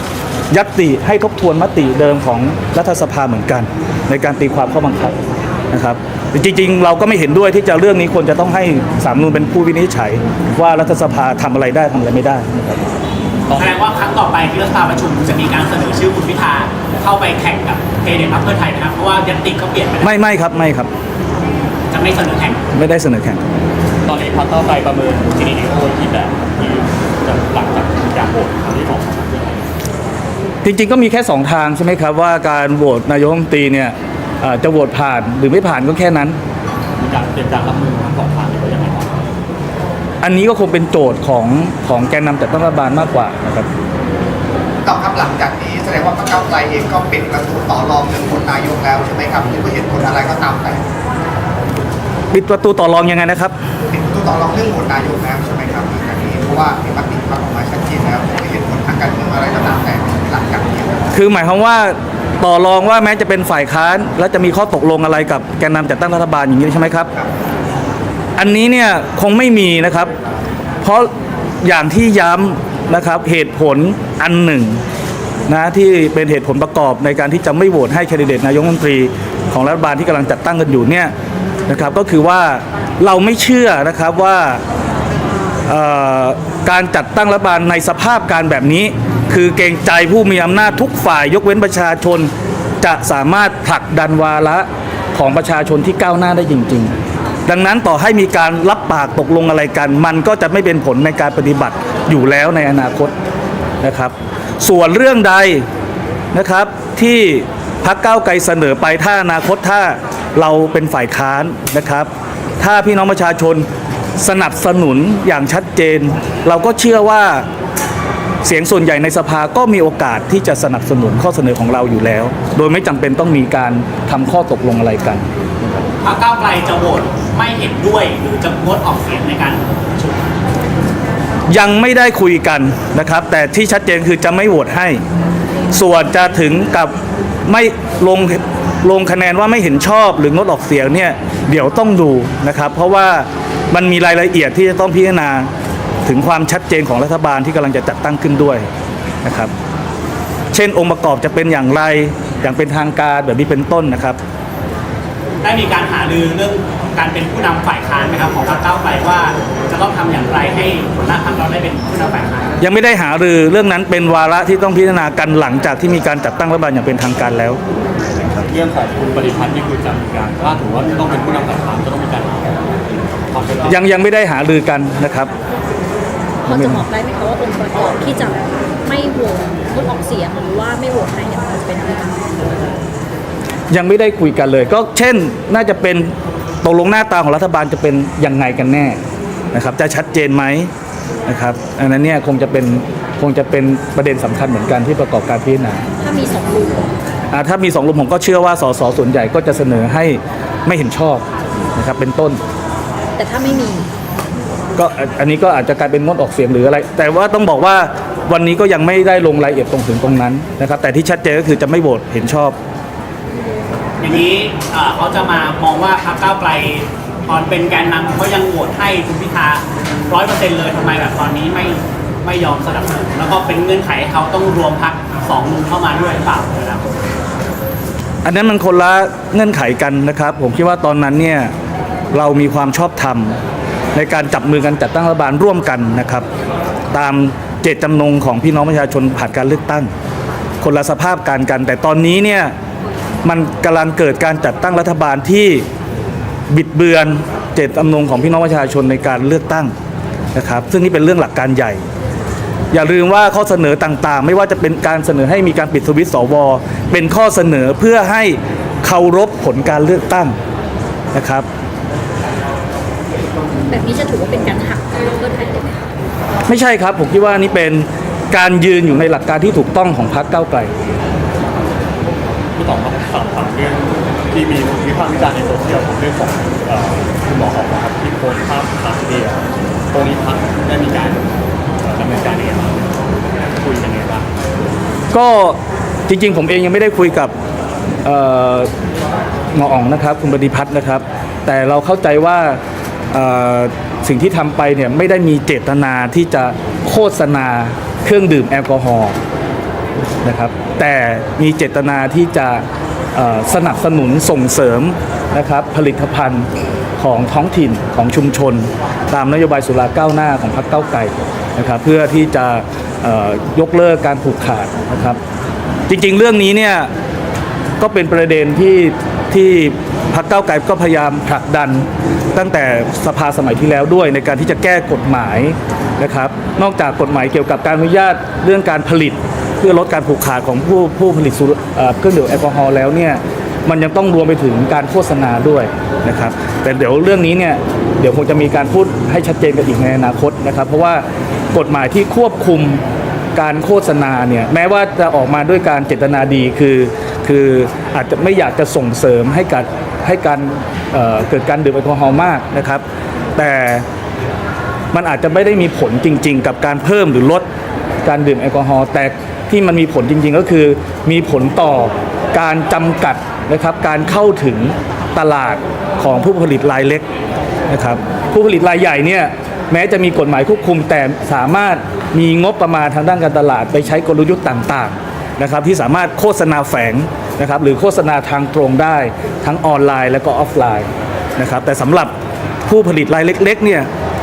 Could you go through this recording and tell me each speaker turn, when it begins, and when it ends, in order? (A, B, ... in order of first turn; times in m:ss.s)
0:00.5-0:05.2 A
0:05.7-0:12.8 A
0:13.5-0:20.2 B
0:20.0-0:20.9 A
0:21.9-0:22.6 B
0:22.7-0:23.4 A
0:24.1-0:29.7 C
0:30.6-0:36.4 A
0:37.0-0:39.2 C
0:40.2-0:43.7 A
0:44.8-0:50.8 D
0:52.3-0:53.5 A
0:53.9-1:01.0 D
1:01.1-1:07.1 A
1:08.4-1:10.1 A
1:10.8-1:11.1 A
1:11.6-1:14.8 A
1:15.5-1:21.1 A
1:21.7-1:24.6 A
1:25.7-1:32.3 A
1:32.8-1:36.9 A
1:37.5-1:43.1 A
1:43.8-1:45.6 A
1:46.3-1:53.7 A
1:54.2-1:57.5 A
1:58.4-2:05.2 A
2:06.0-2:10.2 B
2:11.5-2:15.0 A
2:15.7-2:16.9 A
2:17.5-2:25.5 A
2:26.1-2:28.7 A
2:29.2-2:29.5 A
2:30.5-2:34.2 A
2:35.4-2:42.5 B
2:42.6-2:47.6 A
2:48.3-2:53.8 C
2:53.7-2:55.3 A
2:56.4-3:02.2 E
2:56.5-2:56.8 A
3:03.7-3:09.0 A
3:09.5-3:10.7 A
3:11.3-3:15.8 A
3:16.0-3:16.9 E
3:17.3-3:22.4 A
3:23.2-3:23.9 E
3:24.8-3:32.6 A
3:34.0-3:47.0 B
3:48.2-3:51.5 A
3:52.1-3:53.4 A
3:54.0-3:56.3 A
3:56.9-3:59.9 A
4:00.6-4:02.5 A
4:03.2-4:05.6 A
4:06.5-4:09.7 A
4:10.4-4:11.8 A
4:12.7-4:20.4 A
4:21.1-4:21.5 A
4:23.7-4:25.9 E
4:26.5-4:30.7 A
4:32.6-4:42.9 C
4:43.6-4:44.3 C
4:45.1-4:47.3 A
4:48.0-4:48.7 A
4:49.5-4:52.6 A
4:53.1-4:59.2 A
5:00.2-5:02.6 A
5:03.2-5:06.5 A
5:07.0-5:15.2 A
5:15.9-5:16.9 A
5:17.8-5:42.8 A
5:43.4-5:52.8 A
5:53.4-5:53.8 A
5:54.9-5:57.4 A
5:58.0-6:07.0 A
6:07.7-6:22.1 A
6:22.7-6:23.9 A